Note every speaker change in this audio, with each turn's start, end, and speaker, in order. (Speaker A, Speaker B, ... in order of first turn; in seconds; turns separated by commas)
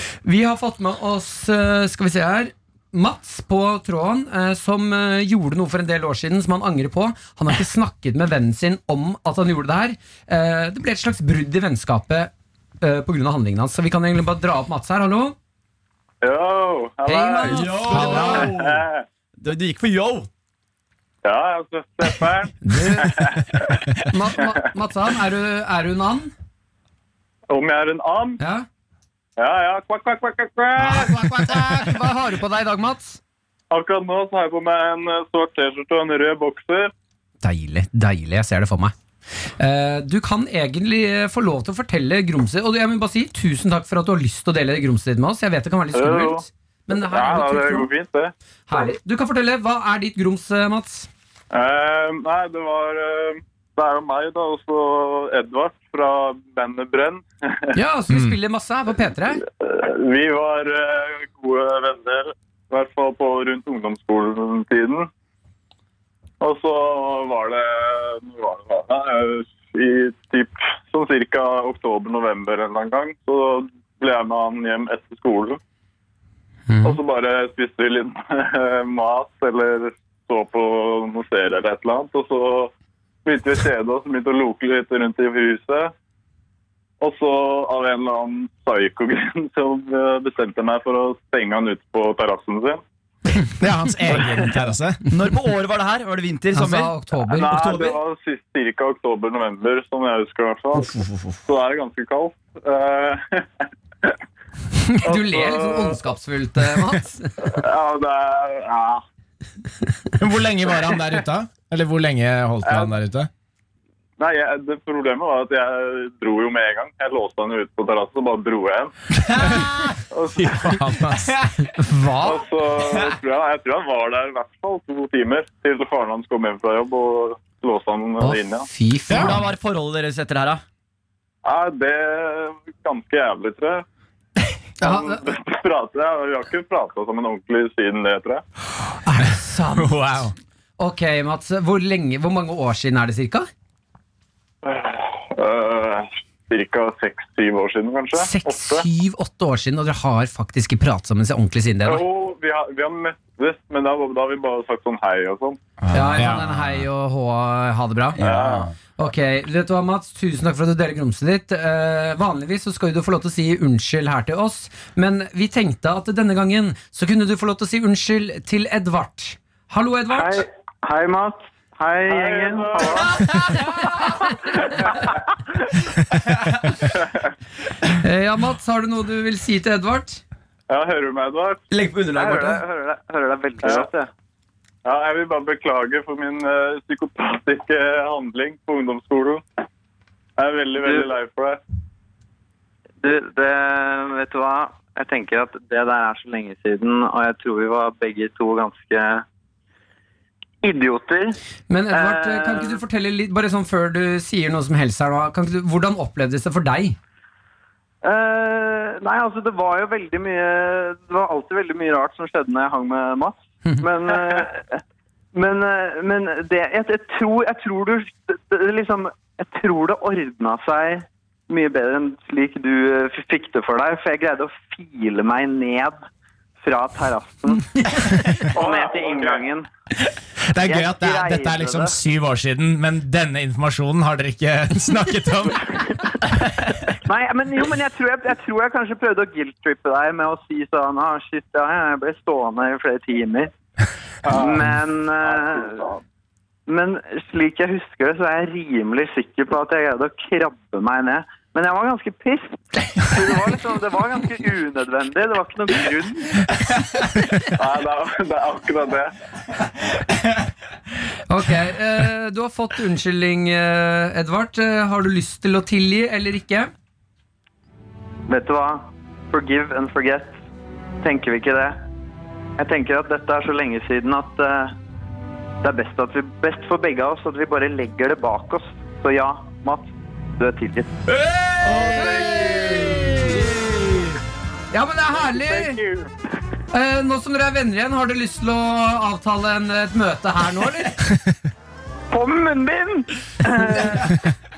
Speaker A: 0.2-15.3, Speaker B: 16.2-19.0, Speaker A: 17.1-18.5, Speaker C: 17.4-18.8, Speaker D: 17.8-18.5, Speaker C: 19.4-20.3, Speaker B: 21.2-23.8, Speaker A: 22.6-23.2, Speaker A: 24.1-26.3, Speaker B: 27.5-28.4, Speaker A: 28.4-28.7, Speaker B: 29.4-31.3, Speaker A: 30.8-33.2, Speaker B: 33.7-36.9, Speaker A: 37.4-38.9, Speaker A: 39.6-47.9, Speaker B: 45.9-48.3, Speaker A: 48.7-51.1, Speaker B: 51.5-57.8, Speaker A: 57.7-59.4, Speaker D: 58.1-58.4, Speaker B: 59.6-65.1, Speaker B: 66.4-75.6, Speaker A: 76.7-77.0, Speaker B: 76.8-82.7, Speaker B: 83.2-85.9, Speaker B: 87.0-92.8, Speaker D: 93.6-95.0, Speaker C: 95.0-98.0, Speaker A: 96.5-97.5, Speaker B: 97.3-100.9, Speaker C: 100.8-101.4, Speaker B: 101.5-104.2, Speaker A: 104.8-107.5, Speaker B: 105.0-106.0, Speaker B: 107.4-109.0, Speaker D: 110.2-113.3, Speaker B: 112.6-112.9, Speaker B: 114.2-118.9, Speaker C: 119.3-119.7, Speaker B: 120.1-120.7, Speaker D: 120.3-121.3, Speaker A: 121.7-122.5, Speaker B: 122.2-128.7, Speaker A: 128.2-129.4, Speaker D: 129.1-129.4, Speaker C: 129.1-130.6, Speaker B: 131.4-133.8, Speaker A: 134.8-135.2, Speaker B: 134.8-138.4, Speaker A: 139.0-140.0, Speaker D: 139.7-140.3, Speaker A: 140.8-143.5, Speaker B: 144.6-148.8, Speaker A: 148.2-152.0, Speaker B: 151.8-155.6, Speaker C: 155.8-156.7, Speaker A: 155.9-158.2, Speaker D: 156.2-156.4, Speaker C: 158.2-158.7, Speaker B: 158.2-158.7, Speaker A: 159.0-170.4, Speaker E: 170.1-173.2, Speaker B: 172.1-173.5, Speaker A: 173.0-174.3, Speaker B: 174.4-175.8, Speaker A: 177.9-180.2, Speaker B: 180.7-181.6, Speaker C: 181.7-182.6, Speaker E: 182.1-184.1, Speaker B: 183.6-183.9, Speaker B: 184.8-189.4, Speaker B: 190.4-191.6, Speaker E: 190.8-191.1, Speaker E: 193.0-199.2, Speaker E: 200.6-201.4, Speaker A: 201.7-207.0, Speaker E: 201.9-202.8, Speaker E: 208.0-214.8, Speaker E: 215.3-226.0, Speaker E: 226.6-229.7, Speaker B: 228.5-229.5, Speaker D: 230.5-235.7, Speaker E: 230.6-231.9, Speaker E: 237.0-243.5, Speaker B: 244.2-244.7, Speaker E: 244.3-245.9, Speaker B: 245.2-246.0, Speaker E: 246.7-256.4, Speaker B: 257.6-259.1, Speaker A: 261.3-266.7, Speaker E: 268.3-270.3, Speaker E: 271.0-271.8, Speaker E: 272.6-274.7, Speaker E: 275.6-280.9, Speaker C: 281.2-281.9, Speaker B: 281.6-283.2, Speaker D: 281.9-283.4, Speaker A: 282.1-282.4, Speaker A: 284.7-285.8, Speaker B: 285.1-286.1, Speaker A: 286.7-291.0, Speaker E: 292.1-294.2